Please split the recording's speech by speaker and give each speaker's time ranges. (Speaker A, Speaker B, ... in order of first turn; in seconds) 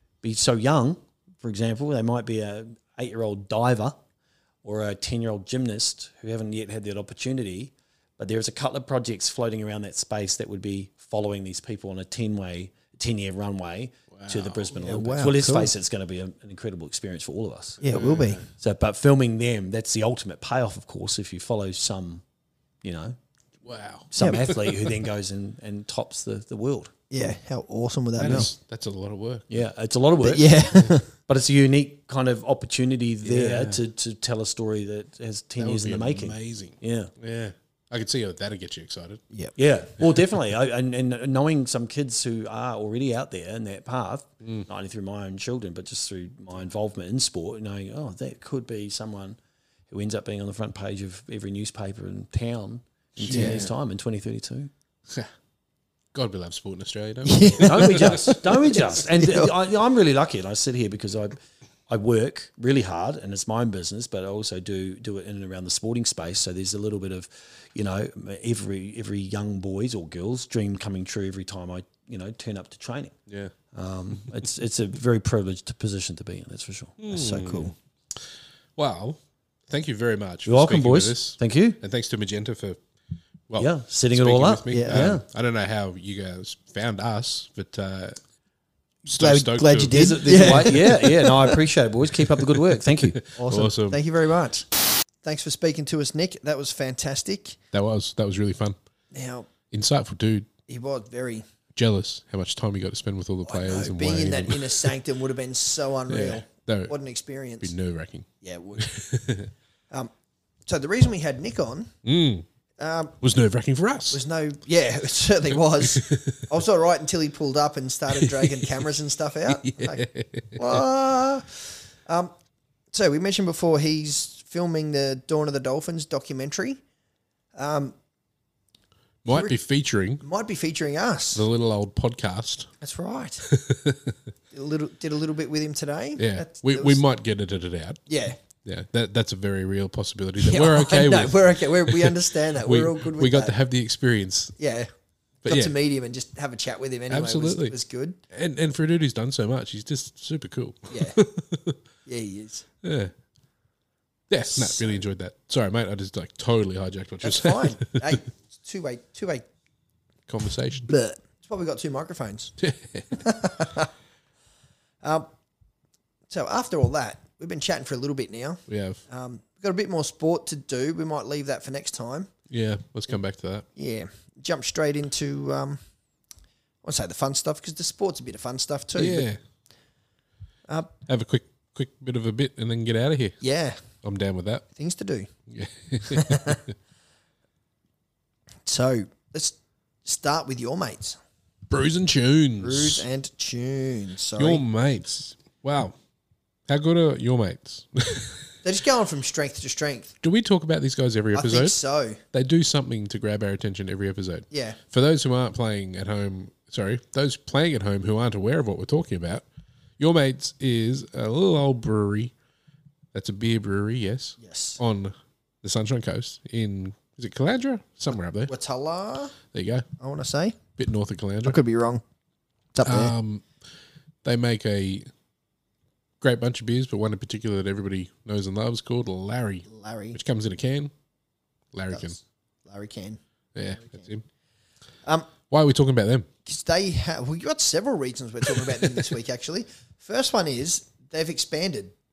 Speaker A: 0.2-4.0, 4.6-17.9, 18.5-22.2, 22.8-23.2, 24.1-26.9, 28.2-28.5, 29.5-37.1, 39.5-49.4, 49.9-54.7, 57.6-61.4, 61.9-73.1, 73.7-77.0, 80.5-81.8, 83.6-85.2, 89.9-93.2
Speaker B: 14.1-14.7, 17.9-18.5, 23.6-24.9, 28.2-29.6, 33.2-33.8, 35.6-39.2, 53.2-53.7, 56.1-58.9, 73.3-73.5, 77.0-78.2, 78.8-82.8, 83.5-88.2, 89.0-90.8, 92.3-94.0, 97.7-98.8, 99.7-100.5, 101.8-104.9, 106.1-106.9, 107.6-108.3, 108.8-109.5, 112.0-112.5, 113.2-114.2, 115.8-116.4, 118.1-118.7, 119.5-120.8, 129.2-130.2, 131.3-132.7, 133.5-134.2, 136.2-138.0, 138.6-144.6, 145.4-145.7, 147.1-147.8, 148.3-151.8, 152.8-153.1, 154.3-158.1, 160.3-160.9, 162.6-163.2, 168.7-169.0, 172.5-173.7, 178.9-179.4, 181.1-183.4, 183.9-184.7, 185.5-186.6, 191.7-193.1, 194.4-195.9, 196.7-198.4, 200.2-201.8, 202.3-209.4, 210.0-212.3, 213.1-218.5, 219.5-219.8, 220.8-221.6, 222.8-223.4, 224.2-225.1, 226.2-230.9, 231.7-232.2, 233.5-234.2, 235.5-236.3
Speaker C: 14.8-15.7, 17.8-18.4, 24.2-24.4, 27.1-28.5, 30.2-31.1, 53.3-53.6, 57.2-58.4, 59.0-59.5, 77.1-77.7, 84.7-85.1, 89.1-91.5, 93.3-94.7, 95.2-97.6, 99.1-99.5, 100.7-101.4, 103.4-107.7, 108.4-108.9, 110.7-111.9, 112.8-113.1, 114.1-122.3, 122.9-126.8, 127.5-127.9, 129.3-129.6, 130.2-131.4, 132.8-133.5, 134.5-137.0, 138.1-138.4, 140.4-143.6, 144.6-144.9, 145.4-148.2, 150.9-151.2, 152.1-152.6, 154.4-155.0, 157.2-159.4, 160.9-162.5, 163.2-163.9, 165.0-165.3, 166.3-172.3, 173.8-175.8, 176.8-179.2, 183.4-183.8, 184.8-185.3, 186.1-186.6, 188.7-191.2, 192.6-194.6, 198.6-200.1, 201.3-202.2, 204.5-204.8, 214.4-214.8, 218.5-219.3, 220.0-220.6, 221.4-222.0, 222.7-223.1, 229.7-230.2, 231.9-233.2, 233.8-234.1, 236.4-241.9